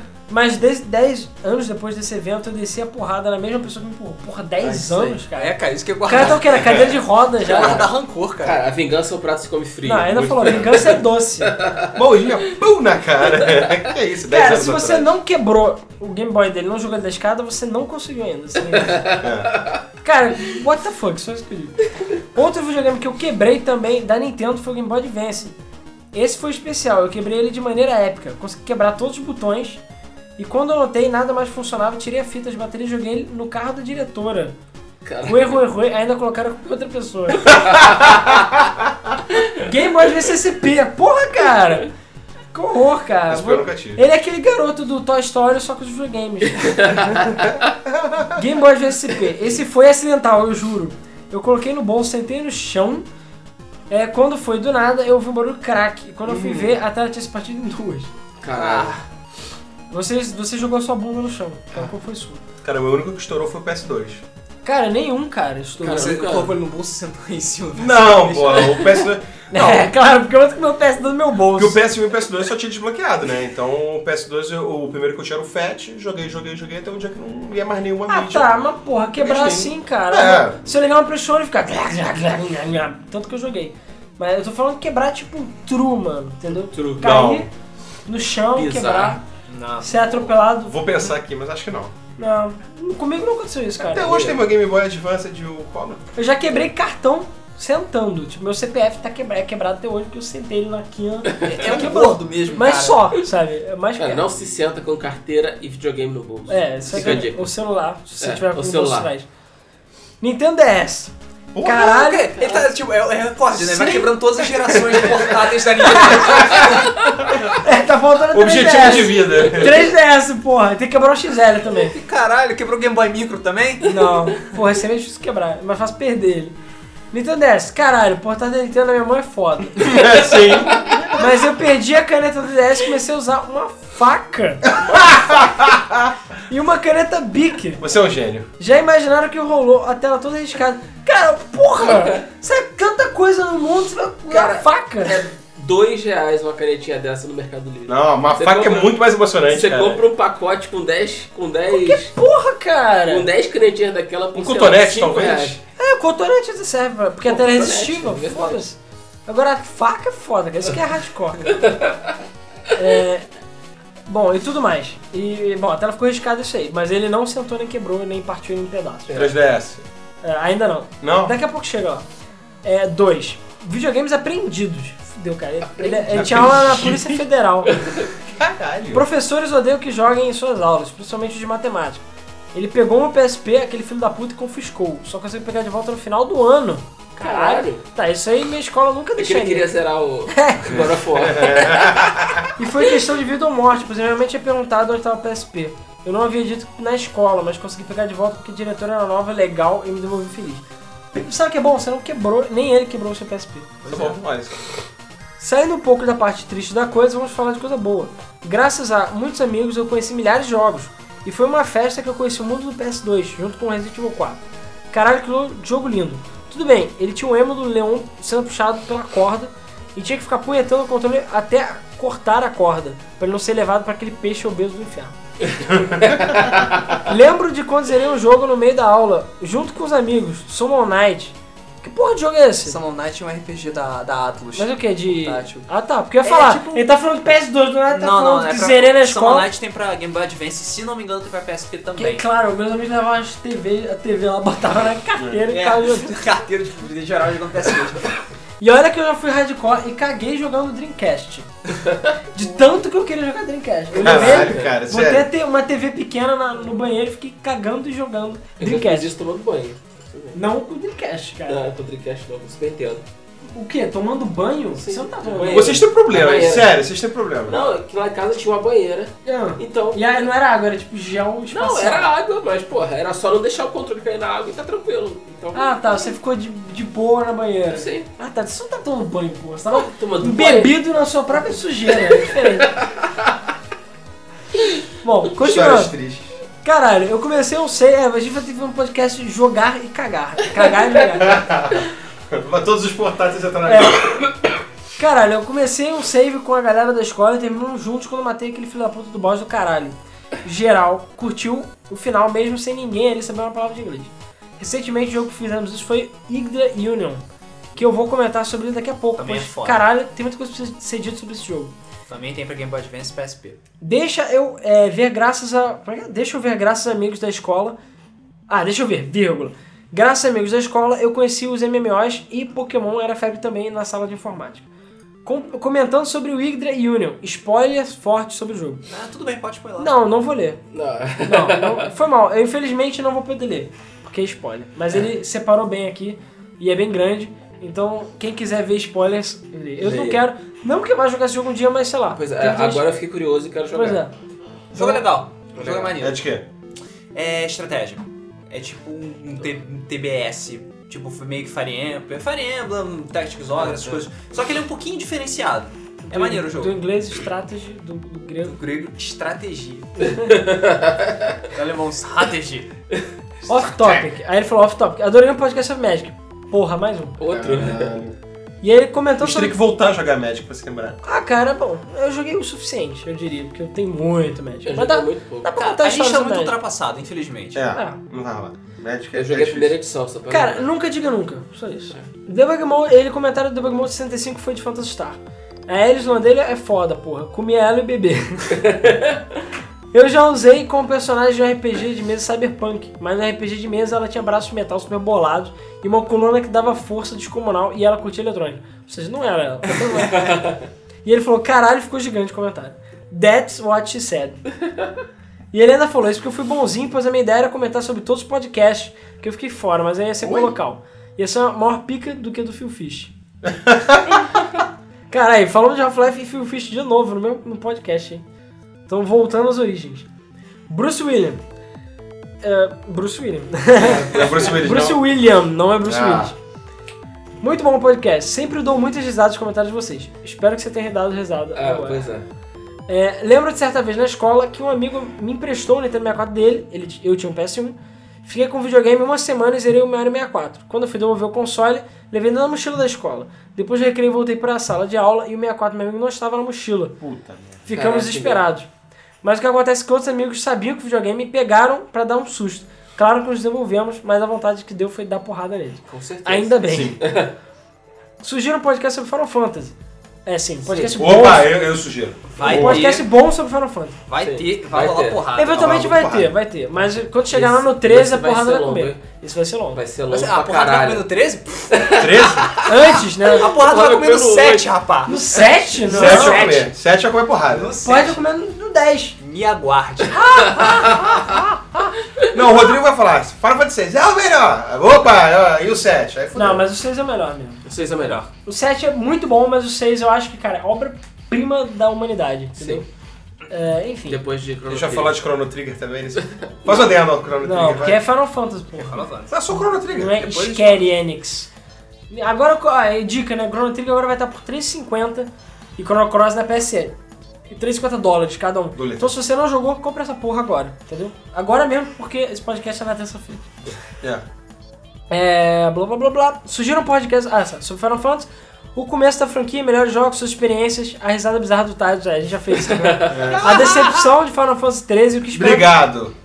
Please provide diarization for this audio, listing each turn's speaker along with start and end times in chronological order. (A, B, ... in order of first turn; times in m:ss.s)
0:00.3-0:07.9 A
0:04.6-0:05.2 B
0:05.3-0:08.6 C
0:07.5-0:07.9 B
0:08.4-0:11.9 B
0:09.8-0:11.6 A
0:10.1-0:11.0 D
0:11.9-0:15.1 D
0:13.4-0:13.7 B
0:14.2-0:19.1 A
0:18.7-0:19.8 B
0:19.2-0:19.5 D
0:20.0-0:25.6 A
0:26.1-0:29.8 A
0:30.4-0:34.6 A
0:35.0-0:35.6 B
0:35.2-0:37.8 A
0:39.5-0:41.9 A
0:42.5-0:47.5 A
0:43.3-0:44.0 D
0:46.9-0:47.2 B
0:47.8-0:48.4 D
0:48.3-0:53.1 A
0:53.9-0:58.1 A
0:56.3-0:56.7 B
0:58.4-0:59.0 B
0:58.5-0:59.0 C
0:59.9-1:02.4 A
1:02.6-1:04.2 D
1:04.6-1:06.3 A
1:05.8-1:09.0 C
1:05.8-1:06.6 B
1:07.8-1:09.9 D
1:09.5-1:11.8 A
1:11.5-1:18.5 D
1:18.1-1:27.5 A
1:19.2-1:20.6 D
1:26.7-1:27.1 B
1:27.0-1:27.5 D
1:28.1-1:29.2 A
1:28.5-1:29.2 B
1:29.5-1:30.3 C
1:29.8-1:30.8 A
1:30.6-1:31.9 D
1:32.2-1:34.3 A
1:33.8-1:36.1 D
1:34.0-1:34.4 B
1:36.2-1:44.3 A
1:41.4-1:43.0 C
1:44.0-1:47.5 B
1:46.5-1:49.3 A
1:48.2-1:49.1 B
1:50.2-1:52.6 A
1:51.5-1:52.0 D
1:51.6-1:56.9 C
1:53.6-1:54.1 A
1:54.7-1:55.2 D
1:55.8-1:56.4 A
1:56.1-1:57.3 D
1:57.5-2:02.0 A
1:58.3-1:59.9 D
2:01.9-2:04.3 C
2:03.8-2:06.6 A
2:07.1-2:15.5 A
2:09.8-2:11.3 D
2:14.8-2:16.1 D
2:16.5-2:17.8 A
2:17.8-2:18.5 D
2:18.6-2:25.2 A
2:21.8-2:22.2 B
2:24.3-2:32.1 B
2:27.9-2:30.0 D
2:31.7-2:33.3 A
2:33.1-2:35.6 B
2:34.4-2:35.6 D
2:35.8-2:41.6 A
2:37.2-2:38.6 B
2:41.5-2:42.1 B
2:42.7-2:43.3 A
2:44.1-2:49.1 A
2:49.1-2:49.3 B
2:49.1-2:49.8 D
2:50.2-2:52.1 A
2:51.0-2:51.4 D
2:52.6-2:57.8 A
2:56.1-2:57.2 D
2:57.8-2:58.0 B
2:58.2-2:59.0 D
2:58.9-3:09.7 A
3:07.2-3:07.8 B
3:09.2-3:12.0 B
3:10.3-3:10.9 A
3:11.1-3:12.5 D
3:12.6-3:23.9 A
3:23.8-3:24.6 D
3:25.4-3:45.2 A
3:46.0-3:47.0 B
3:46.9-3:52.8 A
3:52.6-3:55.7 C
3:54.6-3:59.5 A
3:56.2-3:56.9 C
3:57.9-4:02.2 C
4:02.0-4:06.2 A
4:05.5-4:08.1 C
4:08.6-4:11.5 A
4:11.7-4:12.2 B
4:12.3-4:19.1 A
4:13.9-4:14.8 B
4:14.0-4:15.3 D
4:18.6-4:20.4 B
4:20.3-4:21.6 A
4:21.4-4:23.1 B
4:23.5-4:25.8 A
4:24.7-4:26.7 B
4:25.5-4:27.6 D
4:27.5-4:30.2 B
4:29.3-4:32.1 A
4:31.5-4:36.1 B
4:35.5-4:42.7 A
4:37.7-4:38.1 B
4:39.7-4:40.7 B
4:42.0-4:43.3 B
4:45.0-4:45.9 A
4:45.4-4:46.4 D
4:46.6-4:51.5 A
4:51.2-4:54.3 D
4:53.6-4:54.0 A
4:55.0-5:07.2 A
5:07.7-5:11.7 A
5:09.2-5:09.8 C
5:12.1-5:13.6 C
5:13.8-5:17.8 A
5:18.5-5:24.7 A
5:25.2-5:28.8 A
5:28.9-5:29.9 C
5:29.8-5:30.6 A
5:30.7-5:31.9 B
5:31.2-5:42.8 A
5:39.8-5:40.2 B
5:42.1-5:44.0 B
5:43.7-5:44.1 A
5:44.7-5:46.2 C
5:45.6-5:45.9 B
5:46.0-5:46.4 D
5:47.1-5:56.8 C
5:56.1-5:58.6 A
5:58.4-6:00.2 C
6:00.0-6:00.3 A
6:00.3-6:01.1 B
6:01.5-6:02.7 C
6:03.4-6:07.2 A
6:03.5-6:04.1 C
6:07.2-6:08.0 B
6:07.3-6:08.2 D
6:08.6-6:09.6 A
6:09.2-6:11.0 D
6:11.0-6:16.6 A
6:14.6-6:15.5 B
6:15.5-6:17.6 C
6:17.6-6:19.7 D
6:17.7-6:18.0 A
6:19.1-6:20.7 B
6:20.3-6:28.9 A
6:28.7-6:29.2 B
6:29.9-6:44.6 A
6:45.5-6:53.1 A
6:50.2-6:50.5 D
6:53.4-6:54.2 D
6:55.1-6:58.2 A
6:58.9-7:00.1 A
7:00.7-7:01.4 A
7:02.4-7:06.4 A
7:03.8-7:04.4 B
7:03.8-7:05.0 D
7:05.8-7:06.3 D
7:07.4-7:12.1 A
7:11.5-7:12.2 B
7:12.9-7:27.0 A
7:27.0-7:27.7 D
7:27.6-7:28.7 A
7:27.7-7:28.4 B
7:29.2-7:37.0 A
7:35.9-7:37.3 B
7:36.7-7:37.0 D
7:38.2-7:41.6 A
7:40.6-7:41.0 B
7:41.0-7:42.9 D
7:42.3-7:43.0 C
7:42.4-7:44.0 A
7:42.7-7:43.0 B
7:44.1-7:45.7 C
7:44.2-7:45.3 B
7:45.4-7:49.8 A
7:45.5-7:46.3 D
7:47.2-7:49.0 B
7:49.7-7:51.1 B
7:50.1-7:52.7 C
7:51.7-7:52.6 B
7:52.0-7:52.5 D
7:52.6-7:53.5 A
7:53.2-7:54.7 B
7:53.2-7:56.5 C
7:55.1-7:56.7 A
7:55.8-7:57.8 D
7:57.5-7:58.2 C
7:57.8-7:59.2 A
7:59.2-8:00.6 C
8:00.1-8:01.6 A
8:02.3-8:06.6 D
8:06.4-8:07.6 A
8:07.6-8:08.2 B
8:08.4-8:12.9 A
8:12.6-8:12.8 B
8:13.5-8:14.2 A
8:14.1-8:15.2 B
8:14.7-8:18.0 D
8:16.2-8:16.9 B
8:17.4-8:19.0 A
8:18.8-8:19.6 C
8:19.3-8:20.8 D
8:19.9-8:21.5 A
8:20.2-8:20.8 C
8:22.1-8:26.9 A
8:27.5-8:33.5 A
8:28.7-8:29.2 D
8:35.1-8:45.8 A
8:42.5-8:43.3 B
8:43.1-8:44.1 D
8:45.3-8:46.1 D